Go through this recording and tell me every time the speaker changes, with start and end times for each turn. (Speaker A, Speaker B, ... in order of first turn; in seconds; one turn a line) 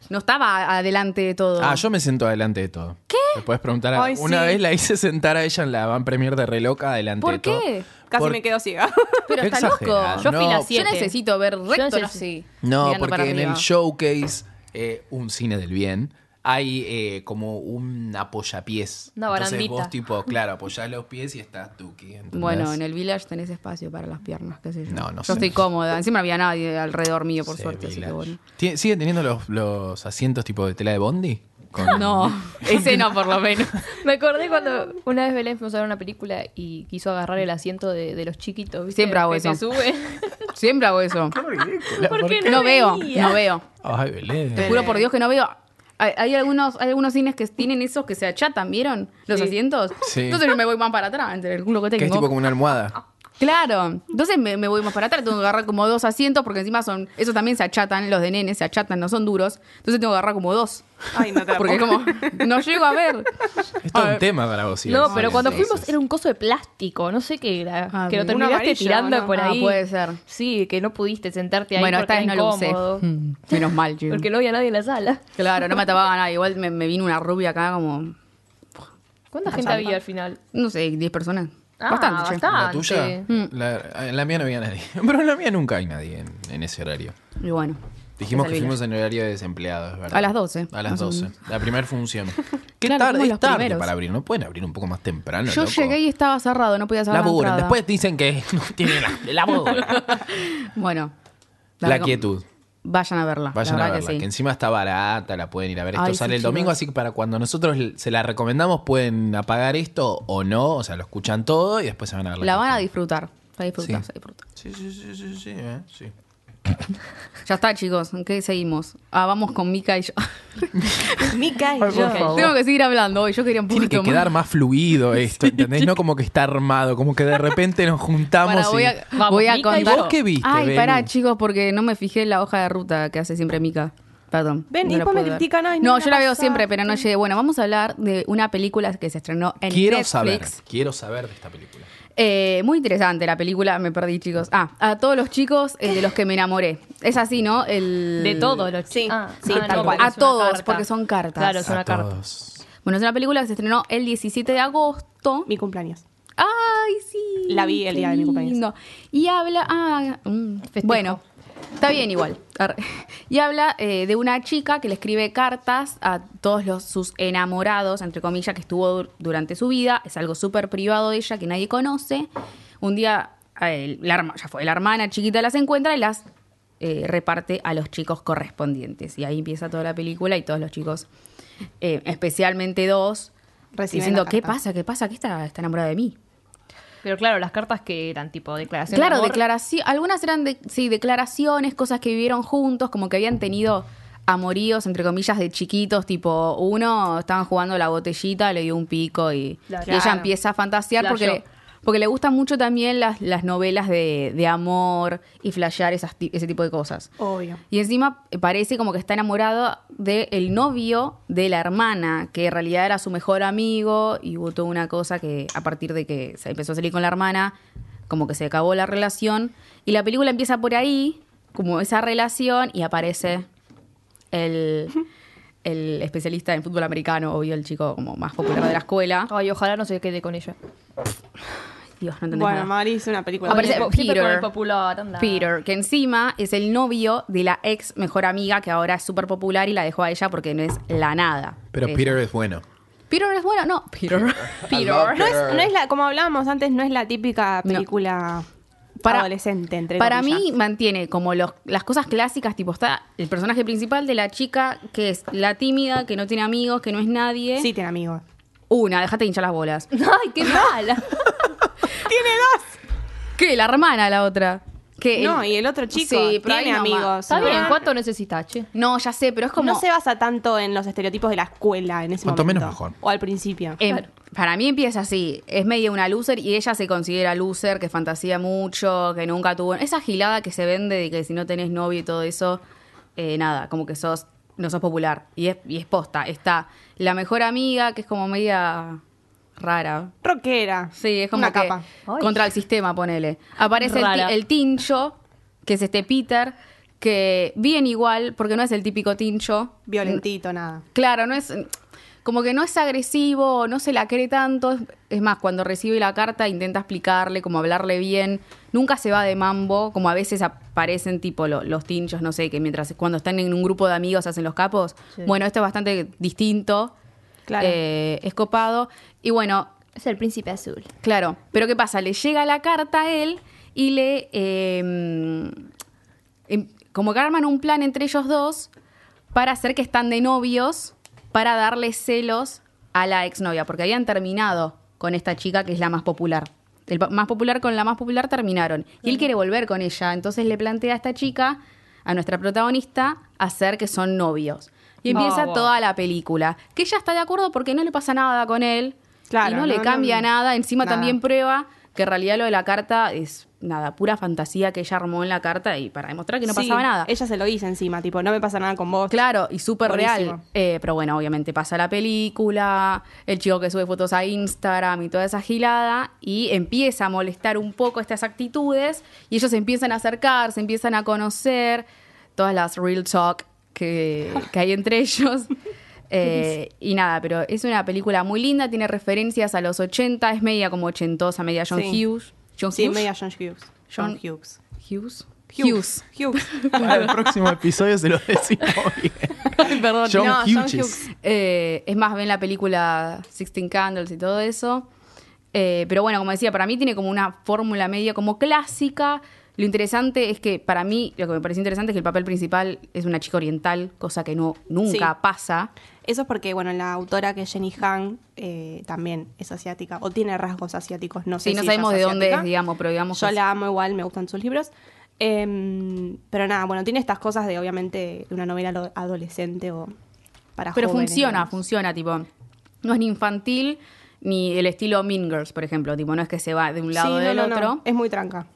Speaker A: 0.1-1.8
Speaker B: 1.6-8.4
Speaker A: 3.1-3.4
Speaker C: 3.9-4.6
Speaker A: 7.2-7.9
Speaker C: 8.1-9.4
Speaker A: 9.3-13.6
Speaker B: 9.4-10.7
Speaker D: 10.2-11.1
Speaker D: 11.7-12.2
Speaker B: 12.6-22.8
Speaker D: 19.1-19.9
Speaker A: 22.3-28.4
Speaker B: 24.9-25.6
Speaker B: 27.5-33.3
Speaker A: 31.8-33.9
Speaker D: 33.9-40.5
Speaker A: 38.9-39.6
Speaker A: 40.5-41.4
Speaker B: 41.3-42.7
Speaker D: 41.9-43.5
Speaker A: 42.4-43.6
Speaker B: 43.8-44.9
Speaker A: 44.5-52.3
Speaker C: 44.6-45.0
Speaker B: 50.0-50.5
Speaker B: 52.0-53.0
Speaker A: 53.4-60.9
Speaker C: 61.1-62.5
Speaker A: 61.5-63.3
Speaker B: 63.8-65.9
Speaker A: 63.9-64.2
Speaker D: 64.8-75.2
Speaker A: 65.1-65.5
Speaker A: 67.9-68.4
Speaker C: 68.3-69.3
Speaker A: 69.3-70.2
Speaker A: 71.8-74.3
Speaker A: 75.4-78.1
Speaker D: 79.3-80.4
Speaker A: 79.5-79.9
Speaker C: 79.5-80.0
Speaker A: 80.5-82.4
Speaker D: 81.8-83.2
Speaker B: 82.4-87.1
Speaker A: 87.4-88.8
Speaker B: 88.2-96.0
Speaker A: 90.1-91.3
Speaker A: 92.8-93.9
Speaker A: 95.5-97.8
Speaker B: 97.1-100.1
Speaker A: 99.9-101.1
Speaker A: 101.8-102.3
Speaker B: 101.8-102.4
Speaker A: 102.8-104.2
Speaker B: 103.5-112.8
Speaker A: 105.9-106.8
Speaker A: 112.4-114.4
Speaker B: 114.5-116.1
Speaker A: 117.4-121.4
Speaker C: 121.2-122.5
Speaker B: 121.8-122.5
Speaker D: 121.8-122.5
Speaker A: 122.2-124.3
Speaker B: 123.7-131.1
Speaker A: 128.4-140.6
Speaker D: 129.1-130.1
Speaker C: 134.7-137.0
Speaker B: 139.7-141.9
Speaker A: 142.2-148.7
Speaker D: 148.2-152.1
Speaker C: 148.9-150.1
Speaker A: 149.5-151.7
Speaker B: 151.6-152.6
Speaker A: 152.8-155.5
Speaker C: 155.5-156.0
Speaker A: 156.4-161.2
Speaker C: 157.5-158.6
Speaker D: 160.8-161.2
Speaker A: 161.8-172.3
Speaker A: 172.8-176.2
Speaker A: 176.8-181.1
Speaker A: 181.8-183.3
Speaker C: 183.7-184.6
Speaker A: 183.9-186.2
Speaker D: 187.0-189.4
Speaker A: 188.9-207.1
Speaker D: 199.7-200.0
Speaker C: 199.8-200.3
Speaker D: 201.0-201.4
Speaker C: 207.2-207.6
Speaker A: 207.7-217.6
Speaker A: 218.1-223.5
Speaker A: 224.3-225.0
Speaker A: 225.6-229.3
Speaker D: 229.3-230.6
Speaker A: 232.0-232.7
Speaker C: 232.3-233.9
Speaker D: 233.4-235.5
Speaker A: 233.4-234.5
Speaker A: 235.2-242.2
Speaker B: 241.7-242.6
Speaker A: 243.1-245.4
Speaker B: 244.5-245.7
Speaker C: 245.2-248.5
Speaker A: 249.0-249.3
Speaker C: 249.0-250.4
Speaker A: 250.0-257.7
Speaker C: 257.6-258.2
Speaker A: 258.7-259.9
Speaker D: 259.9-261.2
Speaker C: 262.0-262.7
Speaker A: 263.4-267.8
Speaker C: 265.1-267.8
Speaker D: 267.3-268.7
Speaker A: 268.7-269.8
Speaker C: 269.6-273.8
Speaker B: 272.2-272.9
Speaker A: 273.8-282.6
Speaker A: 283.1-289.0
Speaker A: 289.6-290.1
Speaker C: 290.2-291.8
Speaker A: 290.9-300.2
Speaker D: 292.1-292.4
Speaker D: 293.8-294.3
Speaker C: 299.9-300.8
Speaker A: 300.9-301.7
Speaker A: 302.2-316.9
Speaker C: 317.5-317.8
Speaker A: 317.6-319.7
Speaker D: 319.9-320.9
Speaker A: 321.0-325.6
Speaker A: 326.5-328.7
Speaker A: 329.3-357.1
Speaker D: 345.1-345.7
Speaker C: 349.3-350.3
Speaker C: 350.8-351.1
Speaker C: 356.4-359.2
Speaker A: 359.1-375.5
Speaker C: 359.8-360.4
Speaker A: 376.1-383.1
Speaker C: 381.7-382.0
Speaker C: 382.7-384.6
Speaker A: 383.9-384.2
Speaker A: 384.8-387.1
Speaker C: 385.5-387.0
Speaker B: 386.7-391.0
Speaker A: 389.6-390.5
Speaker C: 389.7-391.1
Speaker A: 391.1-394.9
Speaker A: 395.5-405.7
Speaker C: 404.9-405.1
Speaker C: 406.0-412.5
Speaker A: 411.4-413.4
Speaker C: 413.1-419.9
Speaker C: 420.6-421.5
Speaker A: 420.7-422.3
Speaker A: 422.8-427.8
Speaker C: 426.9-428.5